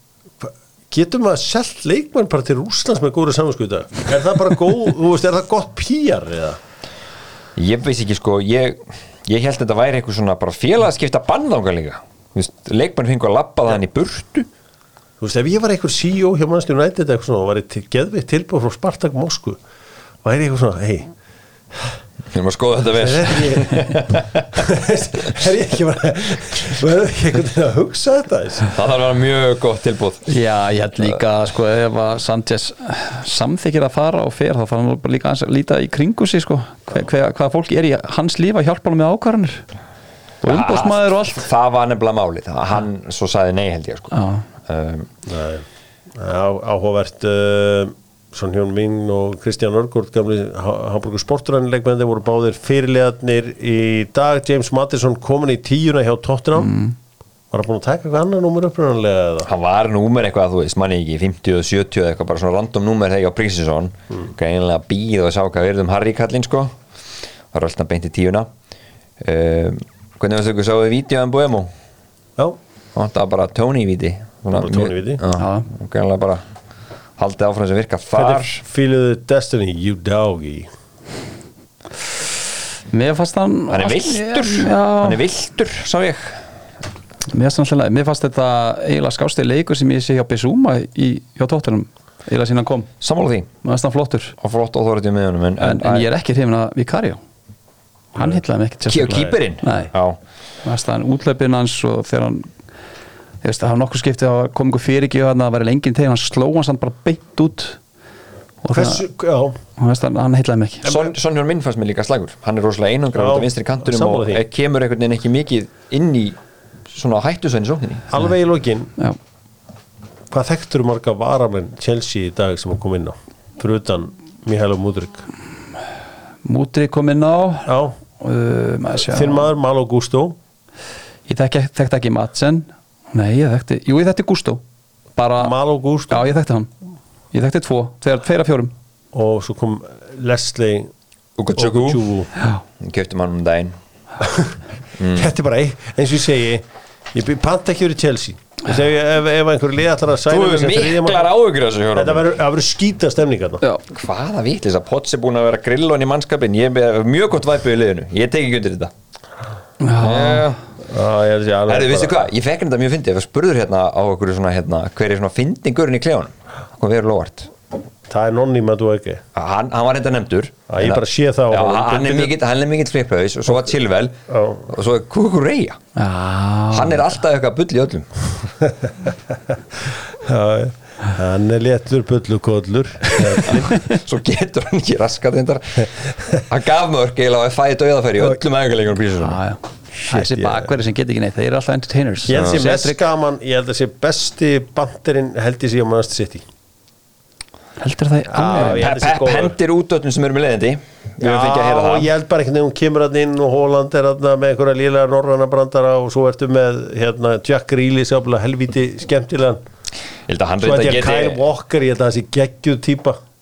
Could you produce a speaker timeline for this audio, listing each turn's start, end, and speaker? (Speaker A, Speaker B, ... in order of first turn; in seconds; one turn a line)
Speaker A: 0.4-6.6
Speaker B: 7.5-14.5
Speaker A: 15.2-19.6
Speaker A: 20.2-21.1
Speaker B: 22.3-24.7
Speaker A: 22.9-28.7
Speaker B: 28.7-30.3
Speaker C: 30.3-39.6
Speaker C: 40.4-41.5
Speaker B: 40.4-45.1
Speaker C: 44.1-44.4
Speaker A: 45.3-45.6
Speaker A: 46.1-56.7
Speaker C: 56.6-57.0
Speaker A: 57.5-59.5
Speaker B: 59.4-66.8
Speaker B: 67.5-68.5
Speaker B: 69.2-71.7
Speaker B: 72.9-76.4
Speaker A: 74.5-75.2
Speaker C: 75.3-75.7
Speaker B: 77.2-78.6
Speaker A: 78.1-80.7
Speaker C: 82.9-85.2
Speaker B: 83.7-86.4
Speaker C: 87.3-92.9
Speaker B: 93.0-93.5
Speaker C: 93.6-94.3
Speaker B: 94.4-96.1
Speaker C: 95.6-97.2
Speaker C: 98.1-99.9
Speaker B: 98.9-100.2
Speaker C: 100.6-102.5
Speaker C: 103.4-107.8
Speaker C: 108.6-109.0
Speaker A: 108.7-109.6
Speaker C: 109.8-110.8
Speaker B: 110.8-116.4
Speaker A: 110.8-111.1
Speaker A: 113.1-114.4
Speaker B: 116.9-118.0
Speaker A: 118.1-118.9
Speaker A: 120.3-125.2
Speaker C: 126.4-129.5
Speaker A: 127.7-127.9
Speaker A: 129.1-130.3
Speaker C: 131.3-134.6
Speaker C: 135.2-135.5
Speaker A: 135.4-136.2
Speaker C: 136.1-136.7
Speaker C: 137.3-138.7
Speaker A: 139.1-140.9
Speaker B: 141.4-142.0
Speaker A: 141.5-142.3
Speaker B: 142.8-143.8
Speaker A: 144.2-144.5
Speaker B: 145.0-145.3
Speaker A: 145.1-146.6
Speaker A: 147.1-151.3
Speaker B: 150.3-152.2
Speaker A: 151.9-153.6
Speaker B: 153.9-158.9
Speaker C: 159.8-160.5
Speaker B: 160.0-160.6
Speaker A: 160.9-162.3
Speaker B: 161.7-167.5
Speaker A: 168.1-169.2
Speaker B: 169.3-174.2
Speaker A: 170.7-172.3
Speaker A: 174.3-174.7
Speaker B: 174.7-175.8
Speaker C: 175.9-177.0
Speaker B: 176.7-178.1
Speaker A: 180.2-183.6
Speaker B: 183.5-185.9
Speaker B: 186.5-189.4
Speaker C: 189.2-193.0
Speaker A: 190.1-190.7
Speaker A: 192.3-196.4
Speaker B: 192.3-192.7
Speaker C: 197.8-198.9
Speaker A: 198.3-199.6
Speaker B: 198.5-202.1
Speaker A: 201.2-209.6
Speaker B: 210.3-211.4
Speaker A: 210.6-213.2